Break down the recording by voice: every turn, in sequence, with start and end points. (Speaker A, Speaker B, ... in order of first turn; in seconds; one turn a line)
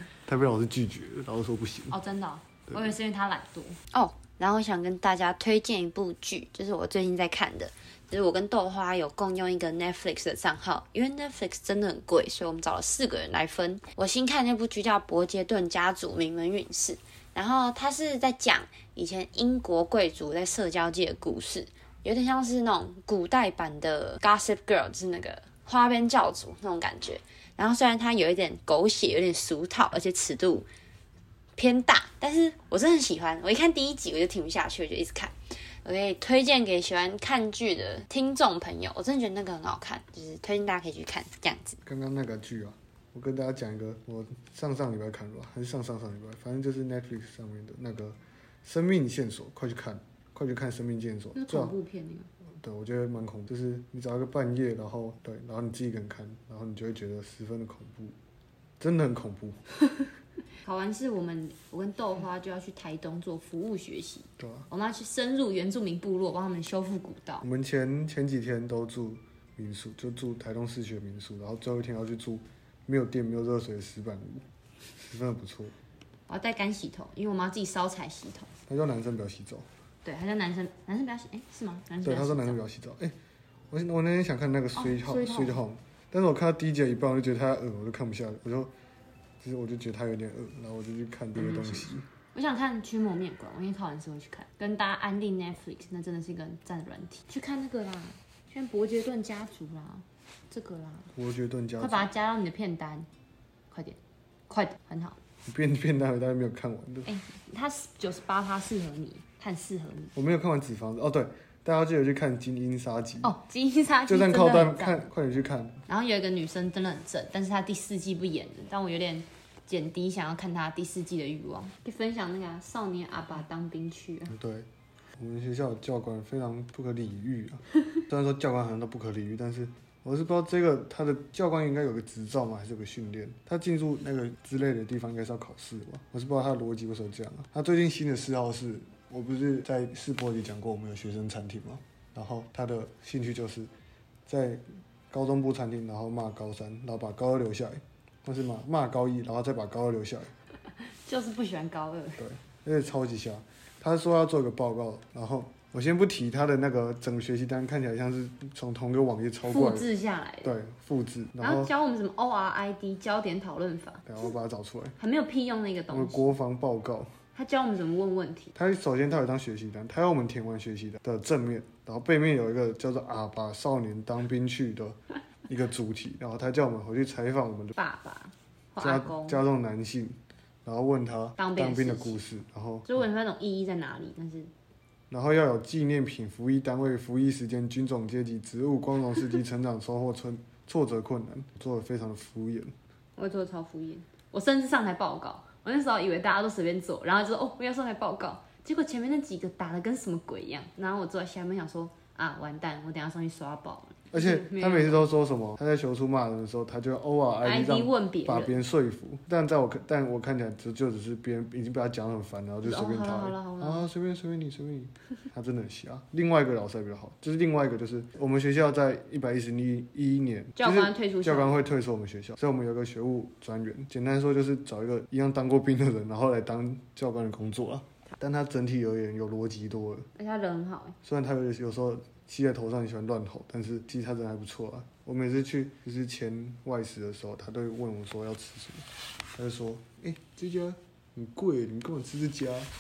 Speaker A: 0.3-2.0
Speaker B: 1.9-30.7
Speaker B: 31.6-41.8
Speaker A: 41.9-51.8
Speaker B: 51.4-52.3
Speaker A: 52.6-58.1
Speaker A: 58.8-59.6
Speaker B: 60.6-67.5
Speaker A: 64.4-64.7
Speaker A: 67.4-74.5
Speaker A: 75.0-75.7
Speaker B: 76.3-78.5
Speaker A: 78.7-79.7
Speaker B: 80.0-82.6
Speaker A: 82.0-83.1
Speaker A: 83.7-88.7
Speaker B: 84.8-85.6
Speaker A: 89.4-92.1
Speaker B: 91.4-101.1
Speaker A: 101.2-102.1
Speaker B: 101.8-103.1
Speaker B: 103.7-104.0
Speaker B: 104.5-105.2
Speaker A: 105.5-107.1
Speaker B: 107.1-110.1
Speaker A: 110.2-113.3
Speaker B: 113.2-115.1
Speaker A: 114.1-115.8
Speaker B: 115.9-124.3
Speaker A: 124.3-143.7
Speaker A: 144.3-150.3
Speaker B: 151.1-152.2
Speaker A: 152.2-159.9
Speaker B: 159.5-160.5
Speaker A: 160.4-161.7
Speaker B: 161.4-164.1
Speaker A: 164.1-165.0
Speaker B: 165.0-166.3
Speaker A: 165.9-167.1
Speaker B: 167.3-168.5
Speaker A: 168.6-177.8
Speaker B: 177.8-179.4
Speaker A: 178.8-182.9
Speaker B: 181.4-182.2
Speaker B: 182.8-184.5
Speaker A: 185.1-192.7
Speaker B: 193.2-205.1
Speaker A: 204.1-230.1
Speaker B: 207.4-208.6
Speaker B: 212.6-213.9
Speaker B: 220.6-221.6
Speaker B: 230.2-231.0
Speaker A: 231.0-238.8
Speaker A: 239.4-242.7